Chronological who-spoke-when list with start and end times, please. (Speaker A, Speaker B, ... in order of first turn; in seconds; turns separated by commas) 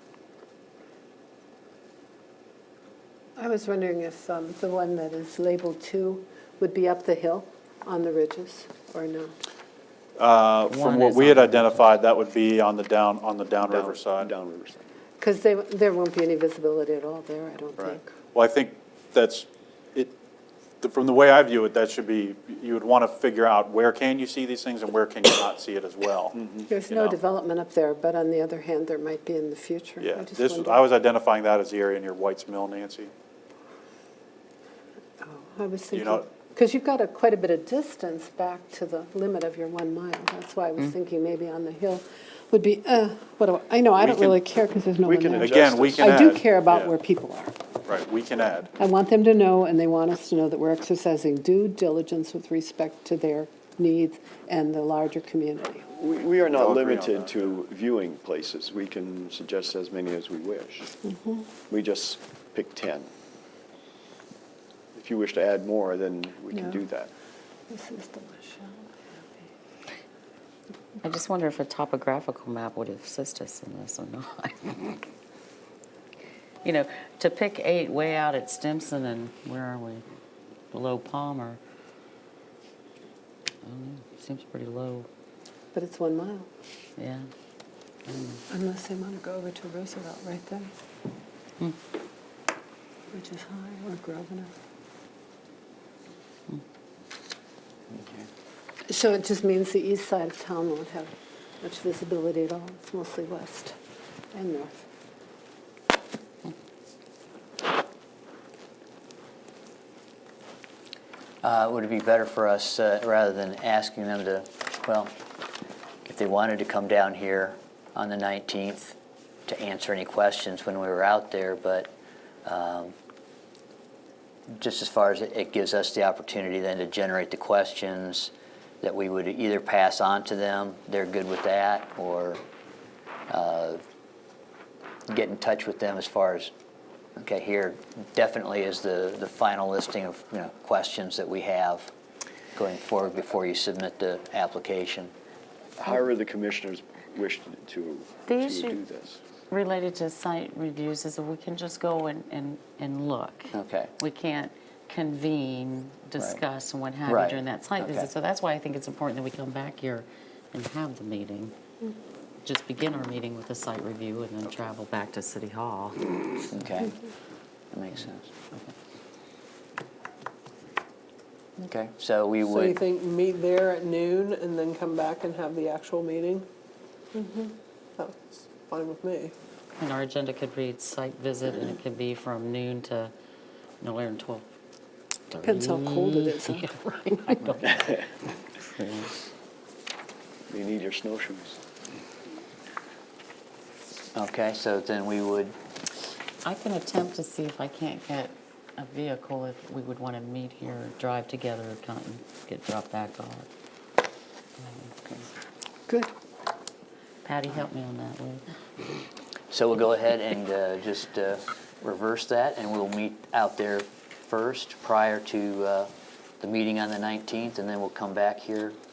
Speaker A: 3.4-9.3, Speaker B: 10.2-14.3, Speaker C: 10.7-11.9, Speaker D: 13.6-14.8, Speaker A: 15.2-18.1, Speaker B: 18.3-20.1, Speaker B: 20.8-26.4, Speaker A: 26.7-30.9, Speaker B: 26.9-27.2, Speaker B: 30.0-33.1, Speaker A: 35.2-47.6, Speaker B: 35.9-36.2, Speaker B: 44.0-44.4, Speaker D: 45.0-46.4, Speaker B: 45.4-46.9, Speaker B: 47.9-48.7, Speaker A: 48.8-55.9, Speaker D: 55.9-60.9, Speaker B: 56.5-57.6, Speaker A: 61.0-61.5, Speaker D: 61.7-63.1, Speaker D: 65.0-67.1, Speaker A: 66.5-66.8, Speaker A: 67.7-69.5, Speaker C: 71.0-75.0, Speaker C: 76.6-80.0, Speaker C: 80.7-81.6, Speaker C: 83.6-85.1, Speaker A: 85.7-86.5, Speaker C: 87.0-87.3, Speaker C: 88.1-88.4, Speaker A: 88.5-90.7, Speaker A: 93.1-94.5, Speaker E: 97.9-98.3, Speaker A: 98.9-103.8, Speaker A: 104.3-104.8, Speaker E: 111.4-115.2, Speaker E: 116.0-118.9, Speaker E: 119.5-121.9, Speaker E: 122.5-122.9, Speaker E: 124.5-132.4, Speaker E: 133.3-133.8, Speaker E: 135.1-136.5, Speaker E: 137.2-141.9, Speaker E: 142.6-145.1, Speaker D: 145.8-149.2, Speaker C: 148.3-148.8, Speaker C: 149.5-161.5, Speaker E: 153.5-153.9, Speaker E: 157.1-158.1, Speaker C: 162.4-166.4, Speaker E: 166.5-167.0, Speaker E: 167.7-168.3, Speaker E: 171.6-172.8, Speaker F: 172.4-176.5, Speaker A: 177.2-177.5, Speaker F: 178.0-179.3, Speaker C: 179.7-183.1, Speaker C: 183.8-184.5, Speaker C: 185.3-189.2, Speaker A: 185.4-186.8, Speaker D: 190.5-191.6, Speaker E: 194.2-195.6, Speaker C: 196.4-203.5, Speaker C: 204.6-205.3, Speaker C: 207.2-208.4, Speaker E: 209.5-218.8